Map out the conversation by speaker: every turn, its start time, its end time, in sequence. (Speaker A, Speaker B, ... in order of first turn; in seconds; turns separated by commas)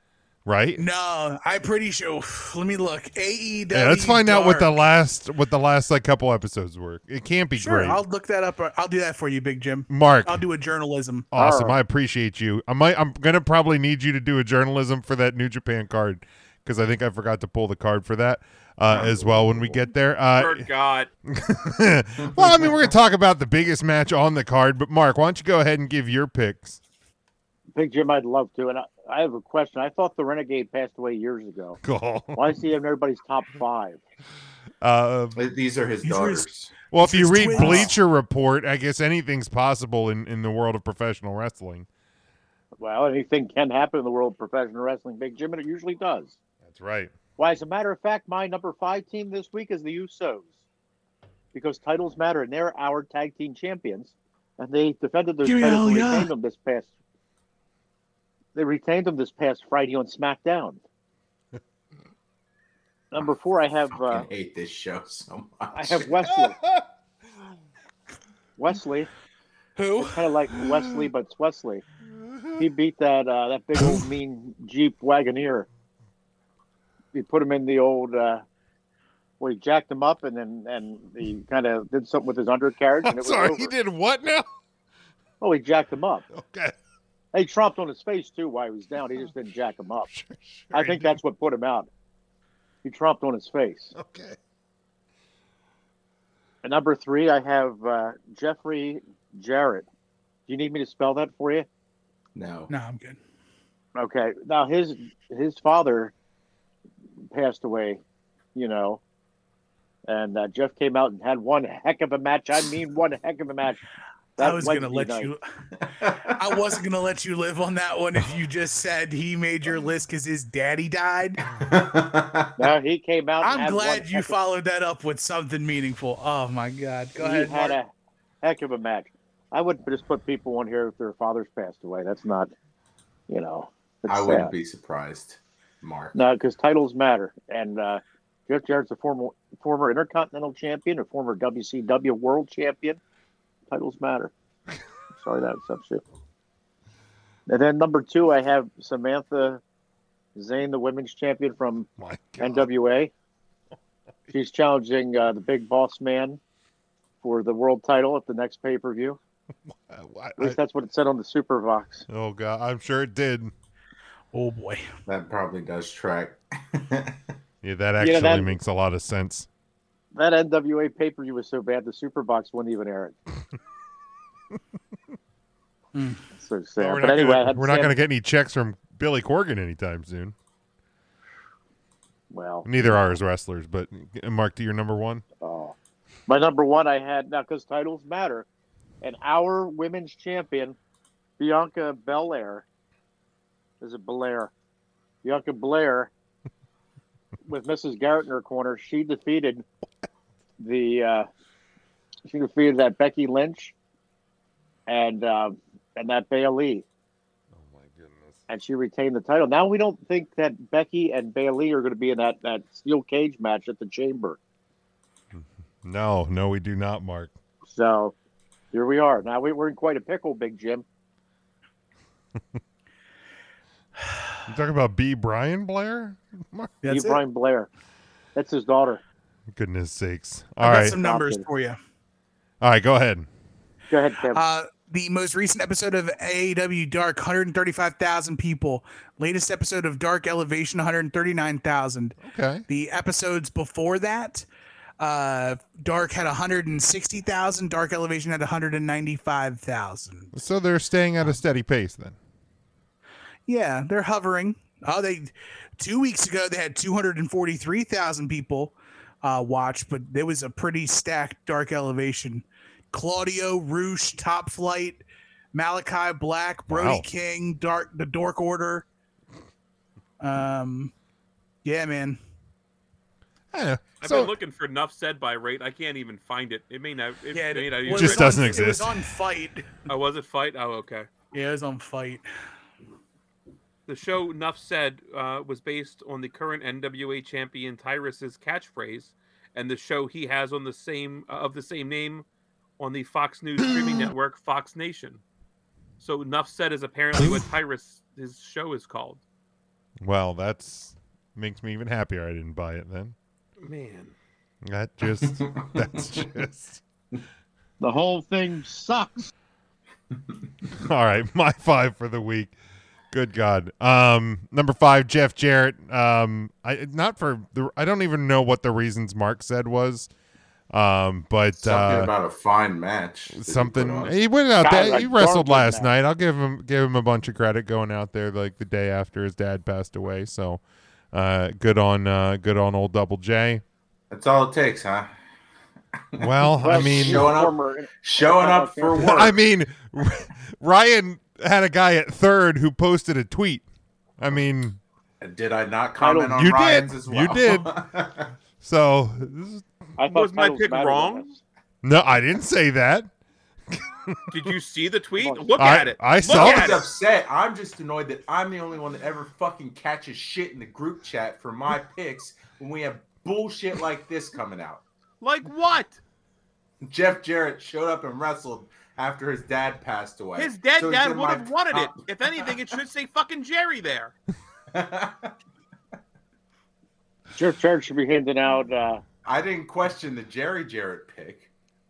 Speaker A: 0.5-0.8, Speaker B: 0.8-4.7, Speaker A: 3.7-8.0, Speaker B: 7.5-11.3, Speaker A: 9.9-10.4, Speaker A: 11.3-20.6, Speaker C: 11.3-11.8, Speaker D: 18.9-19.8, Speaker E: 20.3-21.1, Speaker A: 21.3-26.8, Speaker D: 22.3-22.7, Speaker C: 27.7-31.8, Speaker A: 31.8-32.6, Speaker C: 32.3-34.0, Speaker A: 34.8-35.4, Speaker D: 35.3-36.8, Speaker B: 36.0-37.9, Speaker A: 36.9-41.9, Speaker C: 42.8-46.4, Speaker A: 46.6-47.1, Speaker C: 47.4-50.5, Speaker C: 51.5-56.9, Speaker B: 55.4-56.3, Speaker C: 58.5-60.8, Speaker C: 63.1-64.3, Speaker D: 63.9-66.1, Speaker C: 65.7-66.6, Speaker C: 68.6-69.1, Speaker B: 69.8-70.2, Speaker C: 70.0-71.8, Speaker C: 72.6-75.7, Speaker C: 77.1-78.4, Speaker C: 79.4-83.7, Speaker A: 83.0-84.5, Speaker C: 85.4-86.2, Speaker A: 86.3-86.7, Speaker C: 87.3-90.1, Speaker A: 90.1-91.2, Speaker C: 90.7-91.9, Speaker C: 92.8-93.9, Speaker A: 93.9-94.4, Speaker C: 96.6-99.9, Speaker C: 100.5-101.7, Speaker D: 102.3-102.7, Speaker B: 102.7-103.2, Speaker C: 104.0-106.1, Speaker C: 107.3-108.0, Speaker C: 108.5-109.0, Speaker C: 110.1-113.8, Speaker C: 114.4-115.3, Speaker B: 114.4-115.4, Speaker D: 115.8-116.3, Speaker B: 116.2-121.4, Speaker D: 121.5-122.7, Speaker C: 122.6-124.3, Speaker B: 123.4-127.8, Speaker C: 127.2-127.9, Speaker C: 128.4-132.5, Speaker C: 133.3-134.5, Speaker D: 134.1-136.1, Speaker C: 136.1-143.0, Speaker C: 143.7-144.3, Speaker C: 145.1-146.0, Speaker C: 147.5-149.6, Speaker C: 150.3-153.1, Speaker A: 152.0-152.7, Speaker C: 154.3-156.4, Speaker C: 157.2-159.2, Speaker A: 159.9-160.6, Speaker C: 160.4-162.1, Speaker A: 162.1-163.5, Speaker B: 164.3-164.8, Speaker D: 165.1-167.2, Speaker A: 167.6-169.5, Speaker C: 168.0-168.6, Speaker C: 170.1-173.2, Speaker B: 175.9-176.2, Speaker C: 176.3-177.9, Speaker A: 176.8-180.3, Speaker C: 182.3-183.2, Speaker A: 182.6-185.2, Speaker C: 185.4-185.7, Speaker C: 186.3-188.5, Speaker C: 189.0-190.8, Speaker C: 191.4-192.6, Speaker C: 193.8-194.5, Speaker C: 195.2-196.1, Speaker C: 197.4-199.6, Speaker C: 200.6-201.3, Speaker C: 202.3-203.7, Speaker C: 204.9-206.8, Speaker A: 207.5-208.4, Speaker C: 208.5-214.4, Speaker A: 215.3-217.3, Speaker C: 217.7-218.2, Speaker C: 218.7-220.8, Speaker A: 224.5-226.8, Speaker B: 226.8-227.2, Speaker C: 226.9-227.7, Speaker C: 228.3-229.0, Speaker A: 229.5-231.0, Speaker B: 230.6-231.8, Speaker C: 231.0-231.4, Speaker A: 232.6-233.3, Speaker C: 233.9-234.4, Speaker B: 234.3-242.2, Speaker A: 242.2-242.6, Speaker B: 242.7-244.4, Speaker B: 245.0-250.3, Speaker A: 250.3-252.2, Speaker B: 253.5-268.8, Speaker A: 266.7-267.0, Speaker B: 270.2-270.9, Speaker B: 271.6-272.2, Speaker A: 273.5-274.3, Speaker E: 274.0-278.6, Speaker B: 277.3-279.7, Speaker A: 277.9-278.9, Speaker E: 279.9-281.1, Speaker B: 281.3-282.2, Speaker E: 283.9-292.2, Speaker E: 292.8-295.2, Speaker E: 296.0-299.2, Speaker A: 300.0-303.1, Speaker E: 303.6-304.1, Speaker A: 304.6-306.8, Speaker D: 305.4-305.9, Speaker C: 307.8-309.3, Speaker A: 310.7-312.5, Speaker A: 313.1-320.1, Speaker A: 320.7-322.1, Speaker D: 321.6-324.1, Speaker A: 323.3-333.6, Speaker C: 324.6-325.9, Speaker D: 334.1-335.1, Speaker D: 336.1-339.3, Speaker A: 336.2-337.4, Speaker C: 336.6-339.3, Speaker A: 339.0-343.6, Speaker A: 344.2-344.8, Speaker D: 345.2-348.3, Speaker C: 346.0-346.4, Speaker A: 346.3-347.7, Speaker A: 348.6-349.6, Speaker C: 350.0-351.4, Speaker E: 350.1-351.2, Speaker A: 351.8-353.1, Speaker A: 353.7-354.2, Speaker E: 354.3-356.8, Speaker C: 355.2-355.7, Speaker A: 355.6-356.9, Speaker D: 356.3-364.8, Speaker E: 365.2-366.0, Speaker D: 366.8-372.0, Speaker E: 370.4-374.1, Speaker D: 374.7-375.3, Speaker C: 377.4-379.0, Speaker D: 379.2-381.5